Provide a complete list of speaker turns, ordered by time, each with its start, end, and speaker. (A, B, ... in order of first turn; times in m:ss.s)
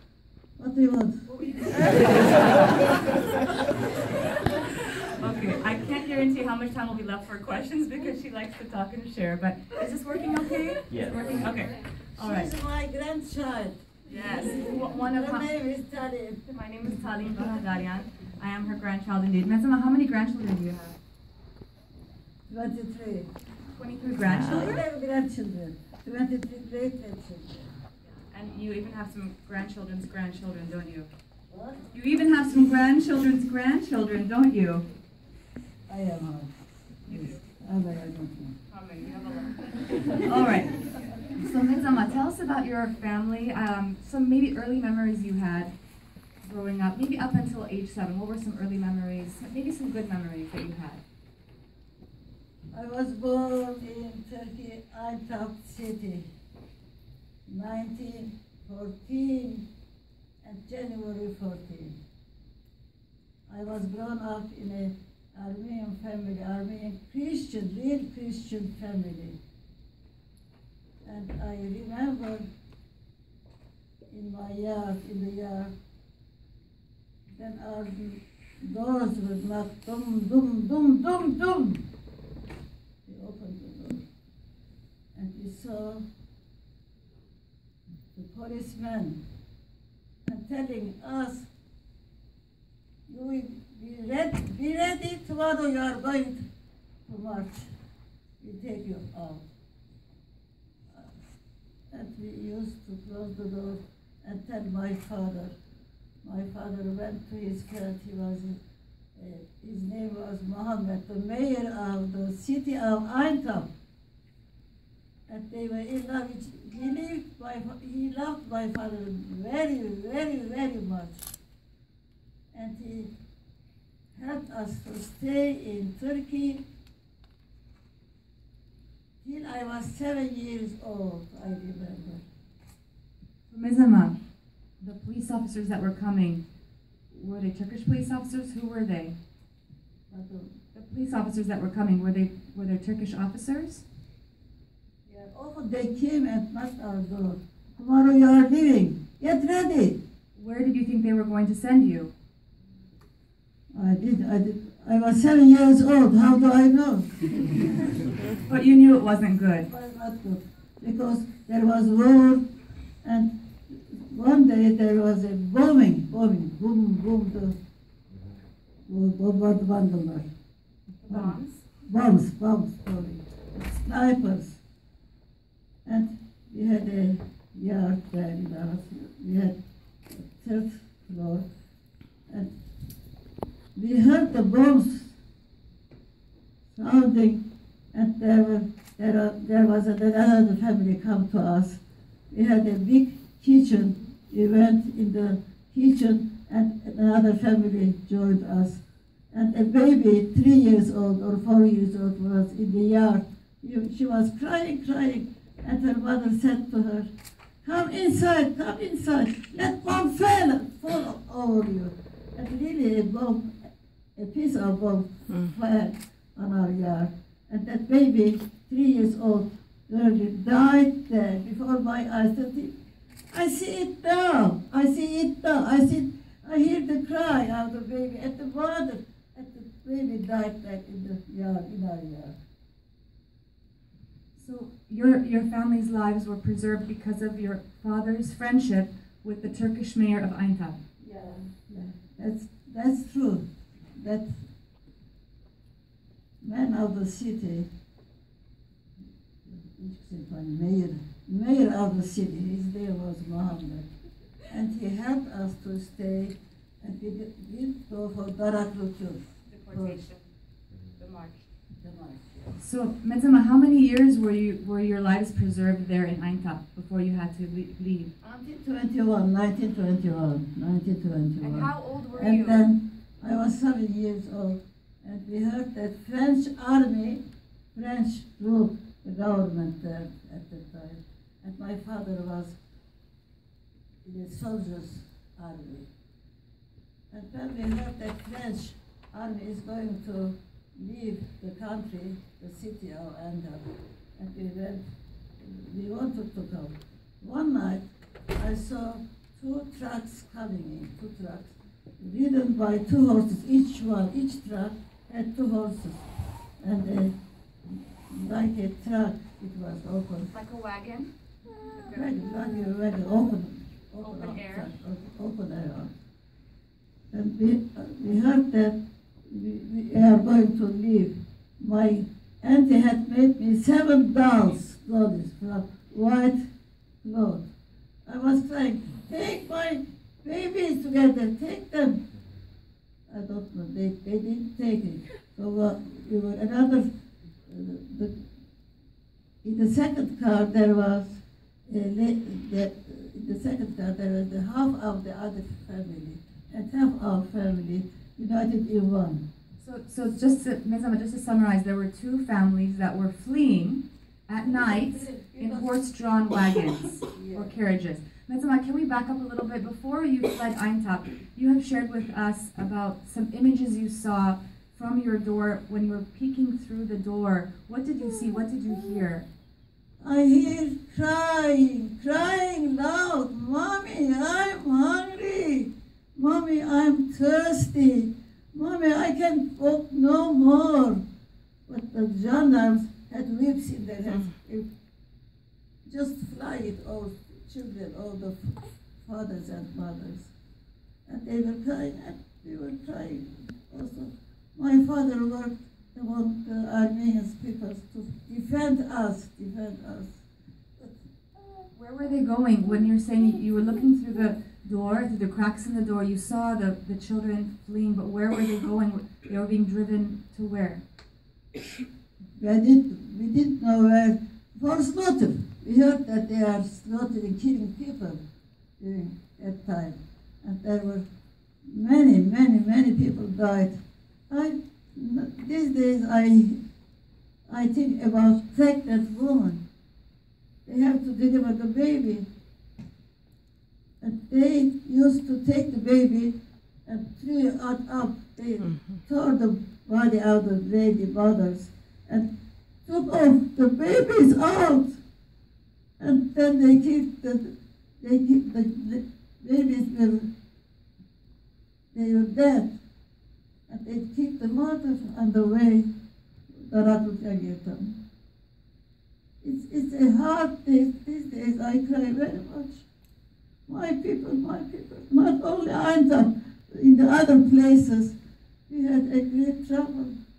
0:00.6-0:01.3 A
0:01.3-0:12.5 B
0:02.0-0:02.6 A
0:12.2-0:16.4 A
0:14.1-0:15.5 B
0:16.5-0:21.0 B
0:22.5-0:23.3 A
0:23.7-0:24.8 B
0:24.4-0:27.6 A
0:28.3-0:31.1 B
0:31.5-0:31.9 A
0:31.9-0:34.9 B
0:32.4-0:32.8 A
0:35.9-0:36.5 A
0:37.1-0:38.6 A
0:37.1-0:37.4 B
0:38.7-0:45.7 B
0:40.0-0:40.3 A
0:46.4-0:51.0 B
0:52.7-0:56.3 A
0:57.5-0:59.7 A
1:00.4-1:02.0 A
1:03.5-1:09.4 A
1:11.0-1:12.4 A
1:14.1-1:15.7 A
1:17.3-1:21.9 A
1:23.1-1:24.1 A
1:25.2-1:26.1 A
1:28.1-1:29.2 A
1:30.3-1:31.5 A
1:33.1-1:36.4 A
1:37.1-1:37.7 A
1:38.4-1:39.4 A
1:41.9-1:45.6 A
1:46.2-1:48.6 A
1:49.2-1:53.7 A
1:55.3-2:01.3 A
2:02.5-2:03.1 A
2:04.1-2:06.6 A
2:09.2-2:12.2 A
2:13.5-2:14.2 B
2:14.8-2:16.4 B
2:17.1-2:19.2 B
2:20.1-2:20.5 A
2:20.7-2:23.8 B
2:25.1-2:30.0 A
2:30.4-2:32.1 B
2:33.7-2:38.2 A
2:38.3-2:39.7 B
2:39.6-2:42.4 A
2:43.0-2:47.6 A
2:48.9-2:50.3 A
2:51.0-2:51.6 B
2:51.1-2:54.6 A
2:55.8-2:59.6 A
3:00.1-3:01.5 A
3:02.3-3:02.5 A
3:03.8-3:05.2 A
3:06.7-3:27.1 A
3:27.6-3:33.6 A
3:34.2-3:42.7 A
3:43.3-3:52.4 A
3:54.4-4:00.8 B
4:01.0-4:03.4 A
4:04.0-4:04.3 A
4:06.4-4:07.7 A
4:09.4-4:13.9 A
4:14.5-4:20.0 A
4:19.5-4:20.2 B
4:21.0-4:21.4 B
4:21.8-4:22.5 A
4:22.6-4:28.1 B
4:28.2-4:37.2 A
4:31.4-4:32.7 B
4:37.8-4:42.6 A
4:44.0-4:45.9 A
4:47.1-4:54.8 A
4:55.4-5:06.1 A
5:06.6-5:07.2 A
5:07.7-5:10.3 A
5:10.3-5:11.1 B
5:11.6-5:12.2 B
5:11.8-5:15.9 A
5:14.0-5:14.7 B
5:17.1-5:26.4 A
5:27.0-5:27.5 A
5:28.1-5:32.0 A
5:33.1-5:36.8 A
5:37.5-5:38.2 A
5:39.4-5:49.2 A
5:49.6-6:09.3 B
5:54.4-5:55.8 A
5:57.1-5:57.6 A
6:10.0-6:21.0 A
6:21.7-6:24.7 A
6:25.9-6:30.3 A
6:31.1-6:40.2 A
6:41.7-6:50.8 B
6:52.4-6:58.2 A
6:58.8-7:01.0 A
7:01.7-7:03.8 A
7:04.3-7:06.6 A
7:07.5-7:09.6 A
7:10.7-7:12.3 A
7:14.0-7:22.3 A
7:22.8-7:25.0 A
7:26.0-7:30.3 A
7:31.9-7:32.7 A
7:33.7-7:35.9 A
7:36.5-7:38.0 A
7:39.4-7:42.8 A
7:43.7-7:48.2 A
7:48.7-7:50.2 A